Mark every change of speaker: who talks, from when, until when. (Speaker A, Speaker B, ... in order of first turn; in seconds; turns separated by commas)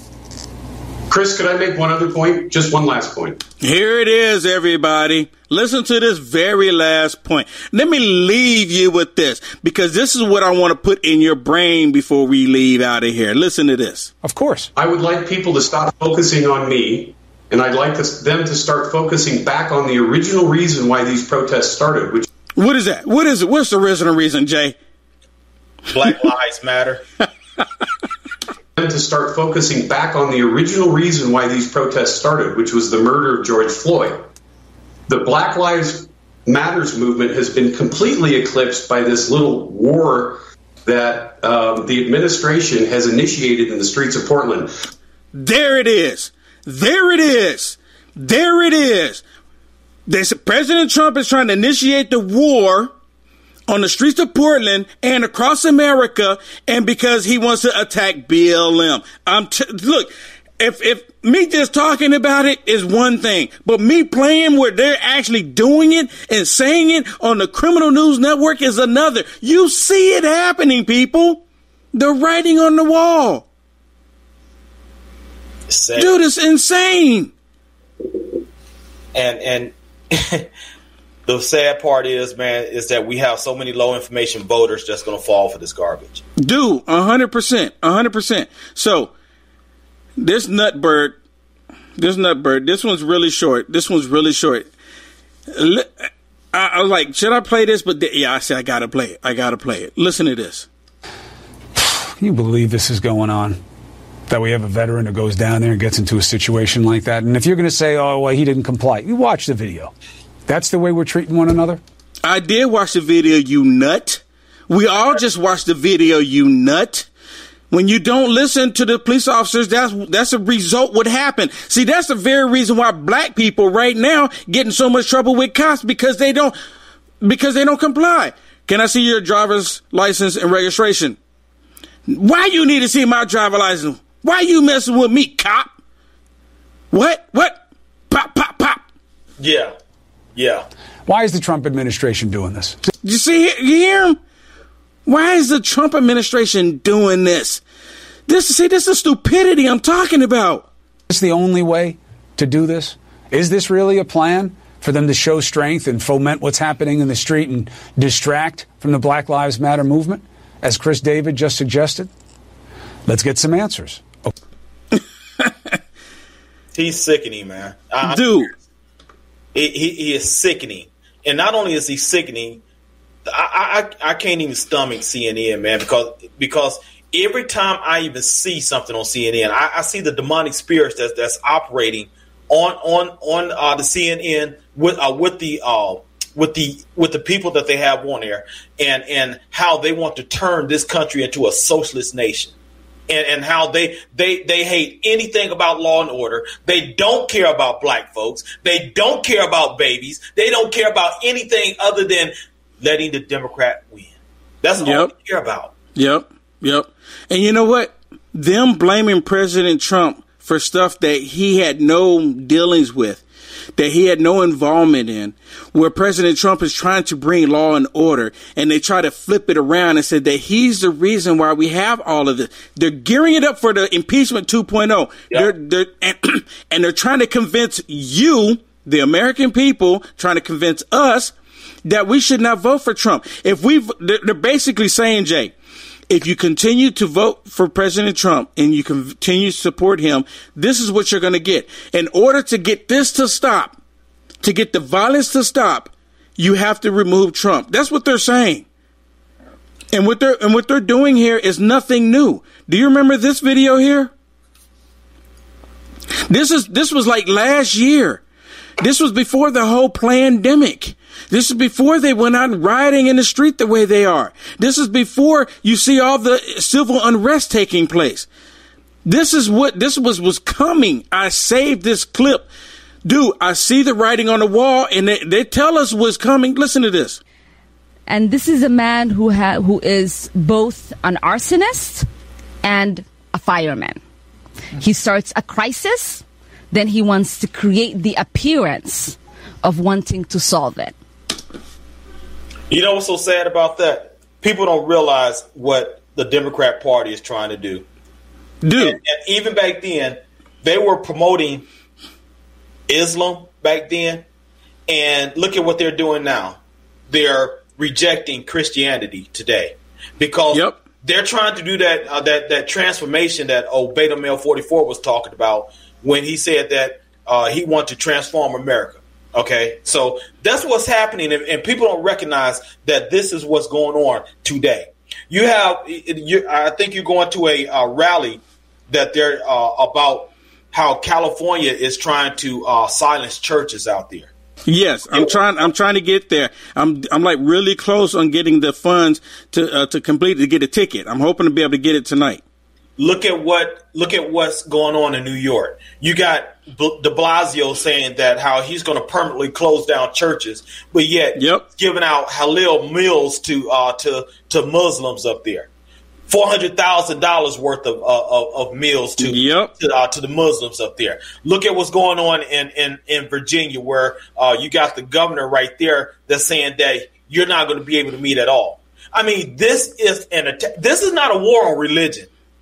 Speaker A: 1.1-3.4, Speaker B: 3.6-14.1, Speaker C: 14.2-14.7, Speaker A: 14.8-22.3, Speaker B: 22.6-24.8, Speaker D: 25.9-27.0, Speaker A: 28.8-34.2, Speaker A: 35.1-44.7, Speaker B: 45.4-49.2, Speaker B: 50.1-52.9, Speaker B: 53.7-71.4, Speaker B: 71.9-73.5, Speaker D: 75.7-76.2, Speaker B: 76.0-77.3, Speaker D: 79.1-80.5, Speaker D: 81.3-86.2, Speaker B: 86.4-89.1, Speaker B: 90.2-91.2, Speaker B: 92.0-94.7, Speaker B: 95.5-100.7, Speaker C: 101.8-103.6, Speaker C: 104.3-109.9, Speaker C: 110.5-111.8, Speaker B: 112.2-117.1, Speaker B: 117.7-126.5, Speaker B: 127.2-131.2, Speaker B: 132.1-135.7, Speaker B: 136.9-137.6, Speaker B: 138.1-138.8, Speaker D: 139.4-139.7, Speaker D: 140.4-140.7, Speaker C: 141.1-142.8, Speaker B: 143.0-144.2, Speaker B: 145.1-147.6, Speaker B: 148.3-150.7, Speaker C: 151.1-162.1, Speaker C: 163.1-164.3, Speaker B: 165.0-165.8, Speaker D: 166.7-168.4, Speaker B: 168.0-168.5, Speaker D: 169.5-172.6, Speaker D: 173.3-192.5, Speaker D: 193.1-204.1, Speaker D: 204.6-205.7, Speaker B: 204.8-205.1, Speaker B: 205.9-213.2, Speaker B: 213.8-231.3, Speaker B: 231.8-235.5, Speaker B: 236.1-243.8, Speaker B: 244.4-248.7, Speaker B: 249.9-254.1, Speaker B: 256.3-258.2, Speaker B: 258.8-268.3, Speaker B: 269.1-272.5, Speaker B: 273.1-277.2, Speaker E: 278.1-282.1, Speaker E: 282.6-284.0, Speaker E: 284.8-291.0, Speaker D: 292.7-297.9, Speaker B: 298.6-299.0, Speaker D: 298.8-301.7, Speaker D: 302.9-304.2, Speaker D: 304.9-306.6, Speaker D: 307.1-334.3, Speaker B: 310.5-310.8, Speaker B: 334.7-342.4, Speaker D: 335.1-335.6, Speaker D: 343.0-355.7, Speaker B: 351.4-351.6, Speaker D: 356.3-372.3, Speaker B: 359.2-359.7